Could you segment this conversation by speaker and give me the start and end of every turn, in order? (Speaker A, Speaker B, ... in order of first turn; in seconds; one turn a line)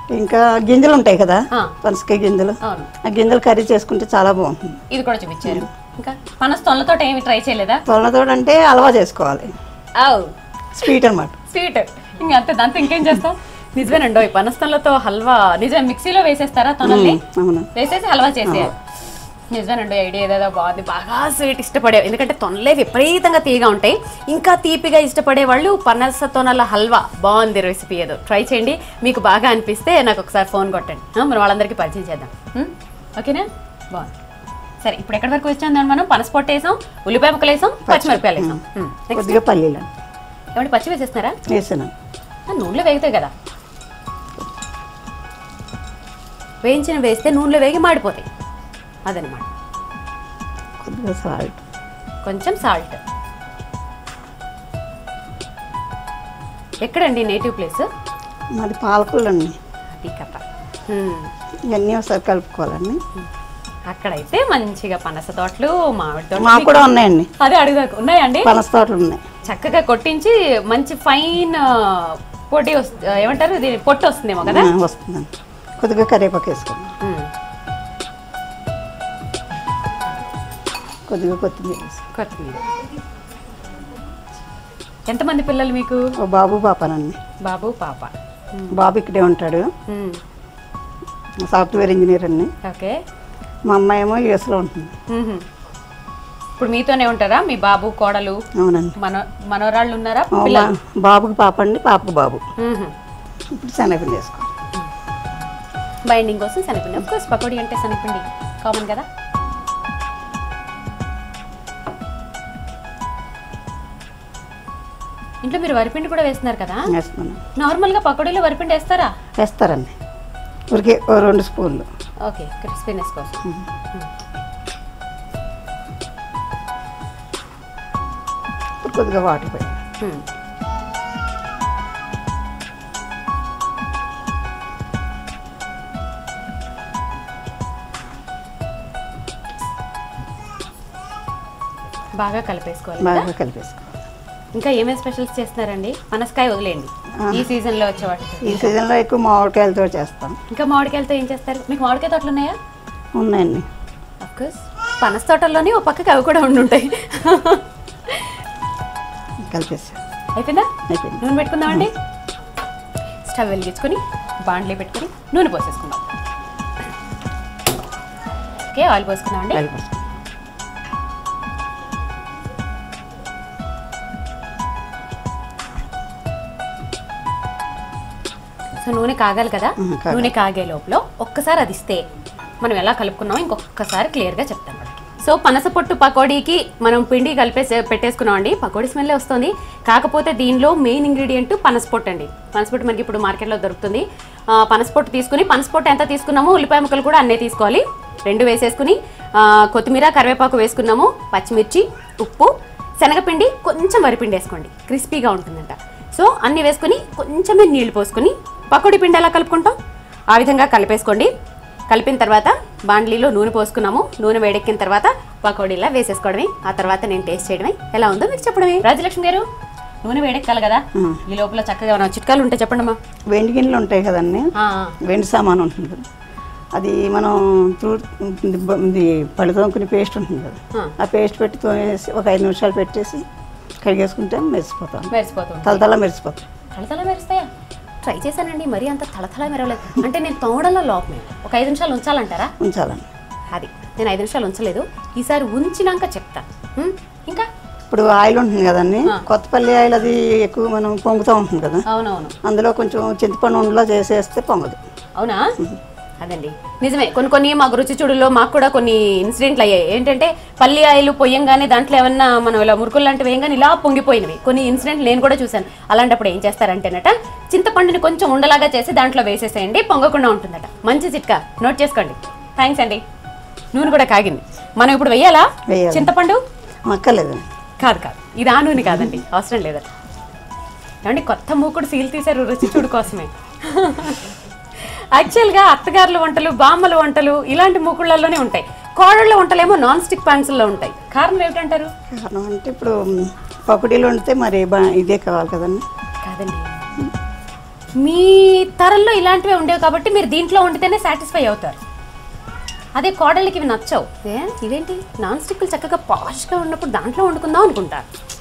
Speaker A: 0.1-4.8
Speaker B: 2.6-2.9
Speaker B: 4.9-7.8
Speaker A: 7.9-9.5
Speaker B: 10.0-10.3
Speaker A: 10.8-11.4
Speaker B: 11.5-17.2
Speaker A: 16.8-17.7
Speaker B: 17.7-18.8
Speaker A: 18.4-18.7
Speaker B: 19.5-34.1
Speaker B: 34.8-39.4
Speaker A: 37.9-38.6
Speaker A: 39.1-39.9
Speaker B: 40.5-41.4
Speaker A: 41.5-41.9
Speaker B: 42.5-43.3
Speaker B: 46.6-48.3
Speaker B: 49.1-49.5
Speaker A: 50.8-51.6
Speaker B: 52.2-53.0
Speaker B: 56.8-57.9
Speaker A: 58.6-59.6
Speaker B: 59.9-61.3
Speaker A: 61.7-63.0
Speaker B: 63.9-68.5
Speaker A: 66.4-67.3
Speaker A: 68.4-69.2
Speaker B: 69.5-74.7
Speaker A: 74.4-75.3
Speaker A: 75.8-76.9
Speaker B: 77.0-77.3
Speaker A: 81.1-82.0
Speaker B: 82.1-82.6
Speaker B: 85.1-86.1
Speaker A: 86.2-87.2
Speaker B: 87.4-88.7
Speaker A: 88.7-89.7
Speaker B: 89.9-90.2
Speaker A: 91.4-92.5
Speaker B: 92.6-93.0
Speaker A: 93.7-95.0
Speaker B: 95.1-95.5
Speaker B: 96.6-98.4
Speaker A: 98.5-99.0
Speaker B: 99.0-100.7
Speaker A: 100.3-102.4
Speaker B: 102.6-102.9
Speaker A: 103.5-104.5
Speaker B: 106.1-109.1
Speaker B: 115.4-116.9
Speaker A: 116.9-117.4
Speaker B: 117.6-119.1
Speaker A: 119.4-120.0
Speaker A: 120.7-121.9
Speaker B: 122.2-124.1
Speaker A: 128.8-129.8
Speaker B: 130.0-130.3
Speaker B: 142.2-143.3
Speaker A: 143.0-144.0
Speaker B: 144.6-148.8
Speaker A: 147.2-147.5
Speaker A: 148.4-150.4
Speaker B: 150.5-152.6
Speaker A: 153.2-153.7
Speaker B: 154.2-158.3
Speaker A: 159.4-160.0
Speaker B: 160.4-161.9
Speaker A: 160.9-161.9
Speaker B: 163.2-166.1
Speaker B: 168.7-169.6
Speaker A: 169.5-170.1
Speaker B: 178.8-182.0
Speaker A: 179.8-180.3
Speaker B: 182.6-209.8
Speaker B: 210.3-211.3
Speaker B: 211.9-219.4
Speaker B: 220.0-223.0
Speaker A: 220.9-221.2
Speaker A: 223.3-224.5
Speaker B: 224.6-225.0
Speaker A: 225.0-226.1
Speaker A: 226.8-233.2
Speaker A: 233.8-235.1
Speaker B: 235.1-235.8
Speaker A: 235.6-236.5
Speaker B: 236.7-237.5
Speaker B: 238.0-242.5
Speaker A: 242.6-243.1
Speaker B: 243.5-247.5
Speaker A: 247.9-251.8
Speaker B: 251.9-252.3
Speaker A: 252.4-254.8
Speaker B: 255.2-255.5
Speaker B: 256.2-273.0
Speaker B: 273.7-276.4
Speaker A: 275.7-276.1
Speaker A: 276.9-277.4
Speaker B: 277.8-279.9
Speaker A: 278.8-279.2
Speaker B: 281.0-284.3
Speaker B: 285.1-291.9
Speaker A: 292.1-295.8
Speaker B: 296.2-296.9
Speaker B: 298.0-301.8
Speaker B: 303.0-308.1